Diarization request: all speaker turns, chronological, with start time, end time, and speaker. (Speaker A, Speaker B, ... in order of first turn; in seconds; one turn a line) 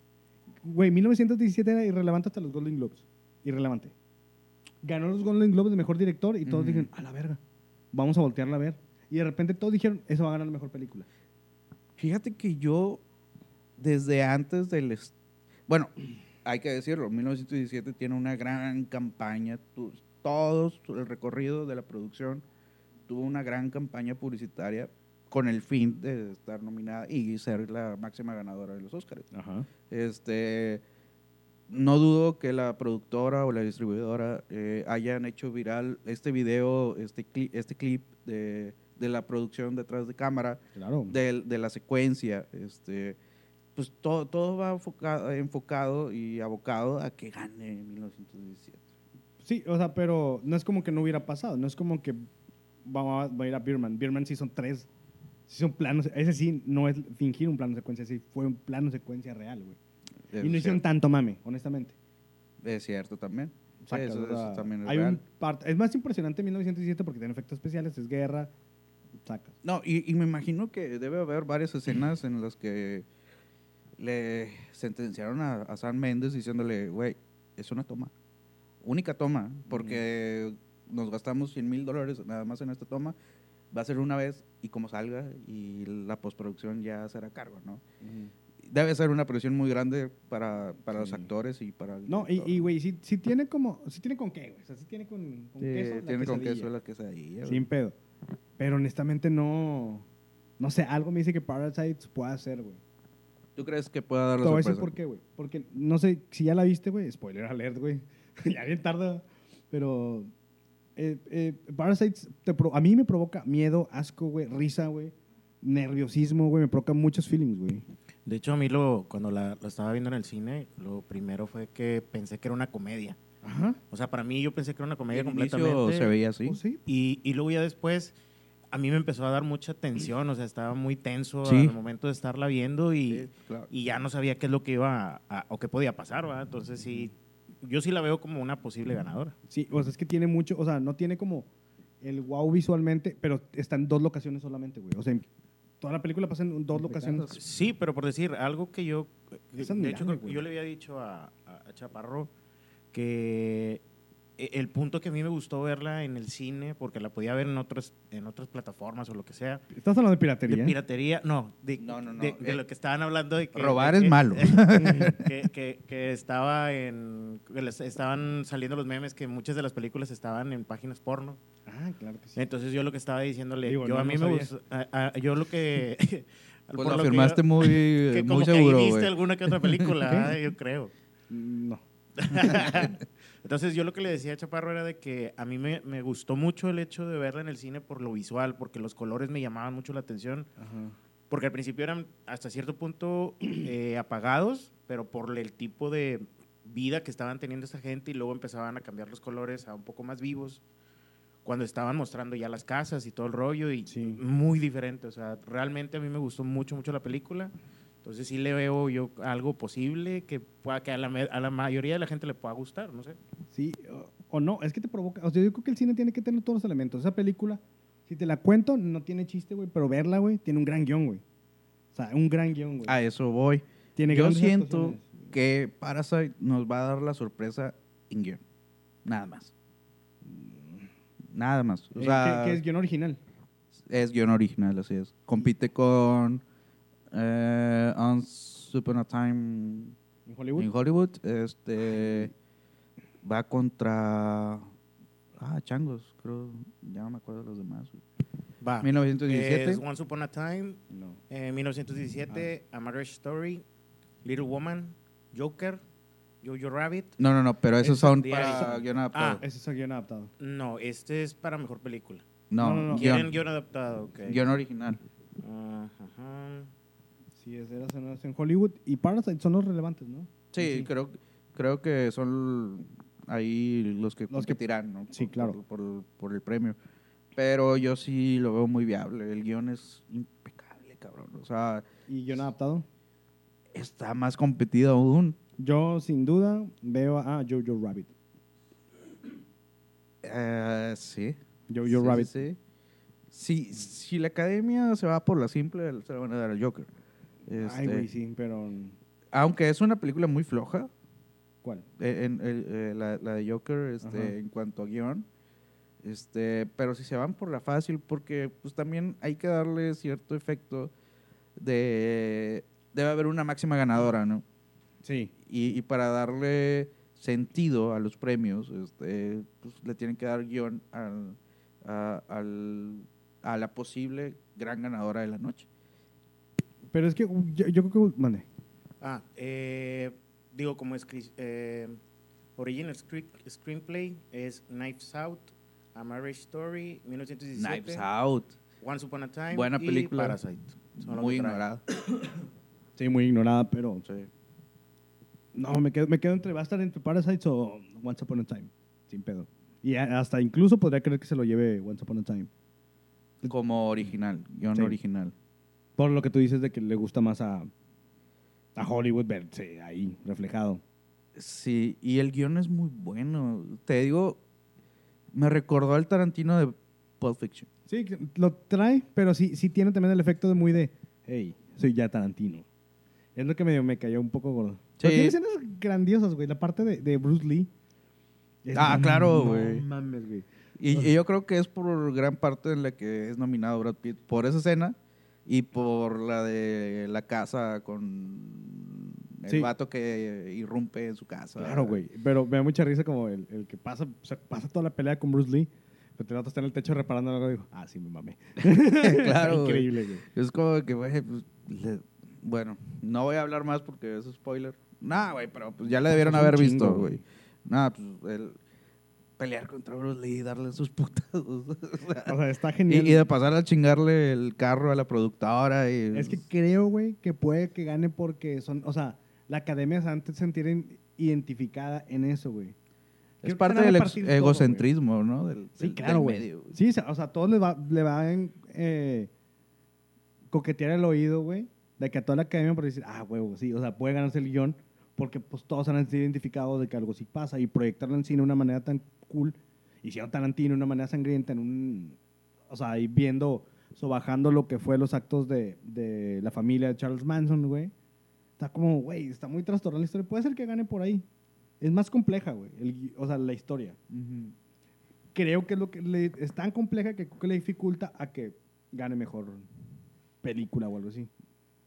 Speaker A: 0.6-3.9
Speaker A: 4.8-7.4
Speaker B: 6.5-6.9
Speaker A: 7.9-11.1
Speaker B: 12.0-13.0
Speaker B: 13.8-15.1
Speaker B: 16.4-22.4
Speaker B: 23.1-29.3
Speaker A: 29.3-29.7
Speaker B: 29.9-30.8
Speaker B: 31.7-43.2
Speaker A: 40.8-41.2
Speaker B: 43.8-48.8
Speaker A: 49.4-52.3
Speaker A: 52.8-54.9
Speaker A: 55.5-59.8
Speaker B: 60.3-60.8
Speaker A: 60.4-62.0
Speaker B: 62.6-65.2
Speaker A: 63.8-68.5
Speaker A: 69.2-69.6
Speaker B: 69.6-73.1
Speaker B: 74.0-78.1
Speaker B: 78.8-83.2
Speaker A: 79.7-80.0
Speaker B: 83.7-87.8
Speaker A: 88.0-88.3
Speaker B: 88.7-92.7
Speaker A: 91.0-91.3
Speaker A: 92.1-96.7
Speaker B: 95.6-97.7
Speaker A: 97.5-98.0
Speaker A: 98.6-100.1
Speaker A: 100.6-102.8
Speaker B: 103.6-104.9
Speaker A: 104.4-110.3
Speaker A: 111.0-117.8
Speaker C: 118.3-123.2
Speaker A: 123.4-123.8
Speaker C: 123.9-126.1
Speaker B: 125.1-126.6
Speaker A: 126.5-126.8
Speaker C: 126.9-128.2
Speaker C: 128.7-139.4
Speaker B: 131.4-131.8
Speaker B: 133.1-133.7
Speaker A: 139.5-141.5
Speaker A: 142.0-145.3
Speaker A: 145.8-147.4
Speaker B: 146.7-147.4
Speaker C: 147.3-152.3
Speaker A: 149.6-150.4
Speaker C: 152.9-153.8
Speaker C: 154.4-159.6
Speaker A: 159.7-160.8
Speaker C: 160.5-171.4
Speaker B: 161.8-162.6
Speaker B: 163.5-165.3
Speaker A: 164.8-165.1
Speaker A: 171.7-172.4
Speaker C: 172.4-180.9
Speaker A: 173.7-174.5
Speaker B: 176.8-179.9
Speaker A: 180.0-180.3
Speaker A: 181.3-182.7
Speaker C: 182.2-190.5
Speaker A: 190.6-190.9
Speaker C: 191.3-200.6
Speaker C: 201.4-207.5
Speaker A: 203.9-204.2
Speaker C: 208.0-213.2
Speaker A: 213.5-221.2
Speaker A: 221.9-223.0
Speaker B: 222.9-228.4
Speaker A: 224.0-225.3
Speaker B: 229.1-229.5
Speaker A: 230.2-230.9
Speaker B: 231.3-232.6
Speaker A: 232.0-233.2
Speaker B: 233.9-236.4
Speaker B: 237.1-239.9
Speaker A: 240.3-240.7
Speaker B: 240.6-242.3
Speaker A: 242.0-242.3
Speaker B: 243.2-244.7
Speaker B: 245.4-248.0
Speaker C: 248.6-253.6
Speaker B: 248.8-249.8
Speaker A: 250.9-251.2
Speaker C: 254.2-255.8
Speaker C: 256.4-257.2
Speaker B: 257.2-259.4
Speaker C: 257.8-259.4
Speaker A: 258.1-258.8
Speaker A: 259.4-260.3
Speaker C: 260.4-262.2
Speaker B: 262.5-263.3
Speaker A: 262.6-263.1
Speaker C: 262.9-264.5
Speaker B: 264.2-265.0
Speaker C: 265.4-266.7
Speaker A: 267.4-270.9
Speaker B: 270.5-276.8
Speaker A: 274.3-275.6
Speaker B: 277.4-282.4
Speaker A: 282.1-282.9
Speaker B: 283.7-285.4
Speaker A: 285.6-288.1
Speaker B: 290.2-292.6
Speaker A: 291.7-292.4
Speaker B: 293.3-296.9
Speaker B: 297.5-298.1
Speaker A: 297.5-299.0
Speaker B: 299.3-300.9
Speaker B: 302.0-305.3
Speaker A: 304.0-304.3
Speaker B: 306.0-310.9
Speaker B: 311.6-314.4
Speaker A: 315.0-315.3
Speaker B: 315.5-325.7
Speaker A: 326.9-328.5
Speaker C: 329.0-332.0
Speaker C: 332.6-338.1
Speaker B: 337.6-338.6
Speaker C: 338.8-341.6
Speaker B: 339.5-340.4
Speaker B: 341.0-341.8
Speaker A: 343.0-344.1
Speaker B: 344.1-344.3
Speaker A: 345.6-352.5
Speaker B: 353.5-355.3
Speaker A: 356.0-357.7
Speaker A: 358.8-360.8
Speaker B: 361.4-364.4
Speaker B: 365.3-367.7
Speaker A: 367.9-372.7
Speaker A: 373.4-377.7
Speaker B: 375.0-375.4
Speaker A: 378.6-381.1
Speaker B: 378.7-379.9
Speaker B: 380.8-392.0
Speaker A: 391.6-400.2
Speaker B: 398.6-408.6
Speaker A: 406.1-407.2
Speaker B: 409.4-412.4
Speaker A: 412.2-413.3
Speaker B: 412.9-416.4
Speaker A: 416.1-422.8
Speaker A: 423.4-424.9
Speaker B: 423.4-426.7
Speaker A: 425.8-429.3
Speaker A: 430.5-442.2
Speaker A: 442.7-447.9
Speaker A: 448.6-451.2
Speaker A: 451.8-454.0
Speaker B: 454.1-454.5
Speaker A: 455.3-459.7
Speaker A: 460.4-461.3